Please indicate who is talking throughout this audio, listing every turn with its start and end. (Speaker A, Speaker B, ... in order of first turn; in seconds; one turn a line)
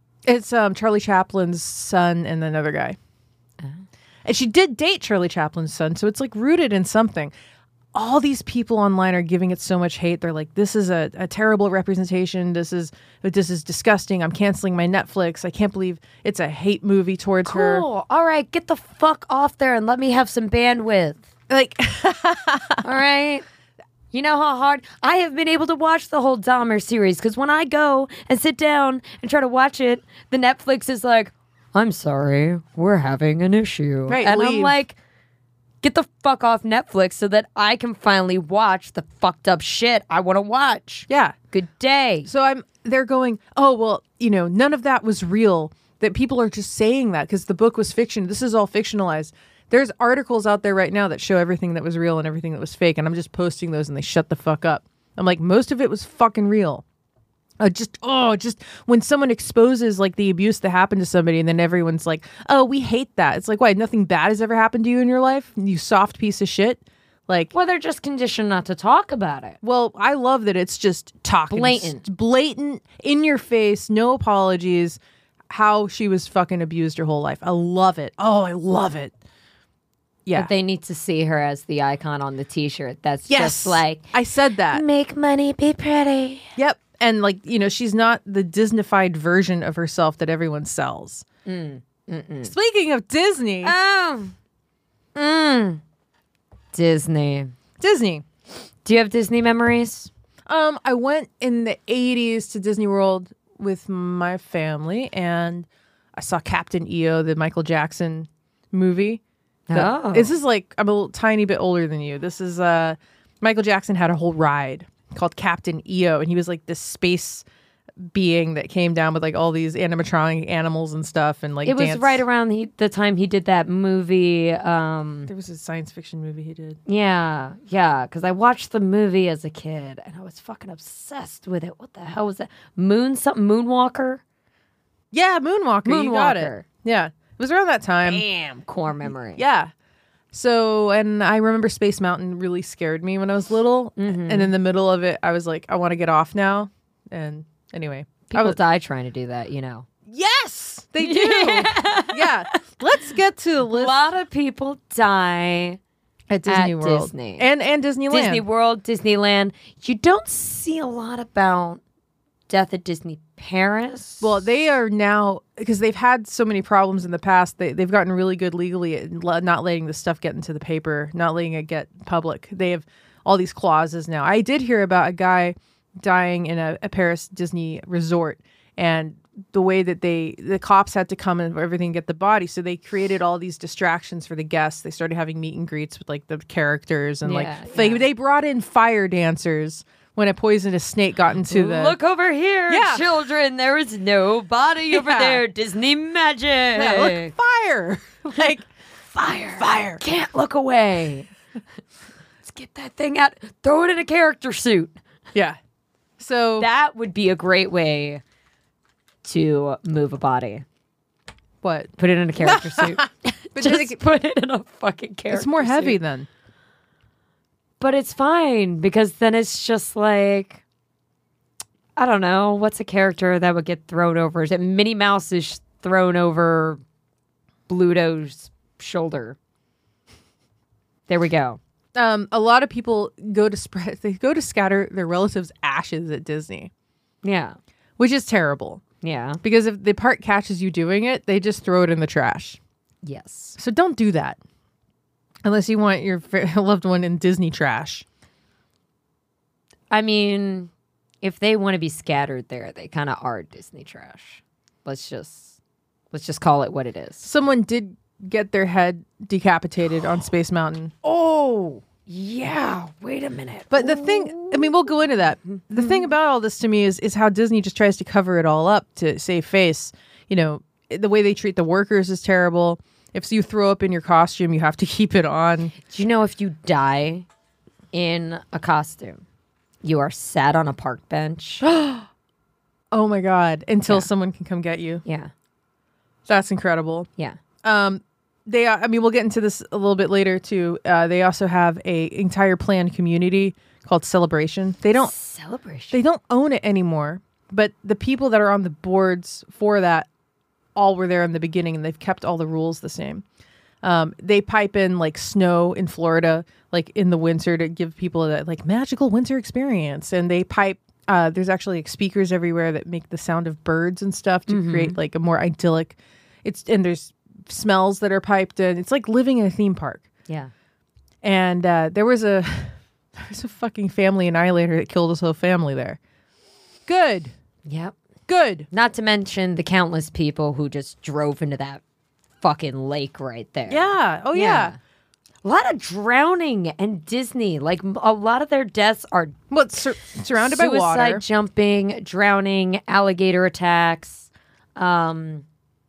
Speaker A: 0.3-3.0
Speaker A: 4.2-7.3
Speaker A: 7.9-17.9
Speaker B: 17.5-21.3
Speaker A: 21.5-22.9
Speaker B: 22.8-23.4
Speaker B: 24.1-35.0
Speaker A: 34.1-34.8
Speaker B: 35.8-42.3
Speaker A: 41.1-41.4
Speaker A: 42.3-56.8
Speaker A: 57.6-67.5
Speaker B: 67.5-69.6
Speaker A: 69.6-75.0
Speaker B: 71.5-72.1
Speaker A: 75.5-79.1
Speaker A: 80.2-80.5
Speaker B: 80.3-84.1
Speaker A: 83.3-84.8
Speaker B: 84.7-86.5
Speaker A: 86.6-91.2
Speaker B: 91.5-92.5
Speaker A: 92.4-93.7
Speaker B: 93.6-94.3
Speaker B: 95.2-95.8
Speaker B: 96.7-97.5
Speaker A: 97.8-98.2
Speaker B: 98.8-100.1
Speaker A: 100.5-109.2
Speaker B: 109.7-110.4
Speaker A: 109.7-117.5
Speaker A: 118.0-122.2
Speaker B: 121.7-125.3
Speaker A: 125.3-126.8
Speaker B: 126.9-134.2
Speaker A: 135.1-138.2
Speaker B: 135.8-136.7
Speaker B: 138.0-139.4
Speaker A: 139.1-139.7
Speaker A: 140.3-148.6
Speaker B: 144.0-144.5
Speaker B: 148.3-149.9
Speaker A: 150.1-154.0
Speaker B: 151.0-152.6
Speaker B: 153.7-155.8
Speaker A: 156.3-158.4
Speaker B: 156.5-157.5
Speaker B: 158.1-161.8
Speaker B: 162.5-164.4
Speaker A: 164.2-192.0
Speaker B: 187.2-188.1
Speaker B: 191.4-197.4
Speaker A: 192.7-193.1
Speaker A: 194.9-195.4
Speaker A: 196.8-198.7
Speaker B: 199.2-201.3
Speaker A: 199.6-200.0
Speaker B: 202.4-205.0
Speaker A: 205.3-205.6
Speaker A: 206.2-206.7
Speaker B: 206.6-208.2
Speaker B: 209.2-210.7
Speaker A: 211.6-214.0
Speaker B: 212.0-216.0
Speaker A: 215.3-216.3
Speaker B: 217.8-220.6
Speaker B: 222.0-226.8
Speaker B: 227.7-229.4
Speaker B: 231.1-231.6
Speaker A: 231.9-236.7
Speaker B: 237.2-237.6
Speaker A: 238.0-238.8
Speaker B: 239.0-239.4
Speaker A: 239.4-242.6
Speaker B: 243.0-243.6
Speaker A: 243.6-244.4
Speaker A: 245.4-248.1
Speaker B: 249.9-250.7
Speaker B: 251.2-255.6
Speaker B: 256.1-257.3
Speaker A: 257.2-260.9
Speaker B: 261.0-264.8
Speaker A: 263.7-275.7
Speaker B: 265.5-266.1
Speaker B: 275.8-277.3
Speaker B: 277.9-279.2
Speaker B: 279.8-281.6
Speaker A: 281.6-282.1
Speaker A: 282.9-285.0
Speaker B: 285.1-285.3
Speaker A: 286.3-287.1
Speaker A: 287.6-295.1
Speaker B: 295.0-296.0
Speaker A: 295.9-300.1
Speaker A: 300.8-303.2
Speaker A: 303.8-320.1
Speaker B: 314.5-315.0
Speaker A: 321.2-326.0
Speaker A: 326.9-327.3
Speaker B: 327.7-327.9
Speaker A: 328.3-328.7
Speaker B: 328.7-331.8
Speaker B: 332.4-334.8
Speaker A: 333.7-334.8
Speaker B: 335.4-339.4
Speaker A: 339.5-341.2
Speaker B: 340.4-345.4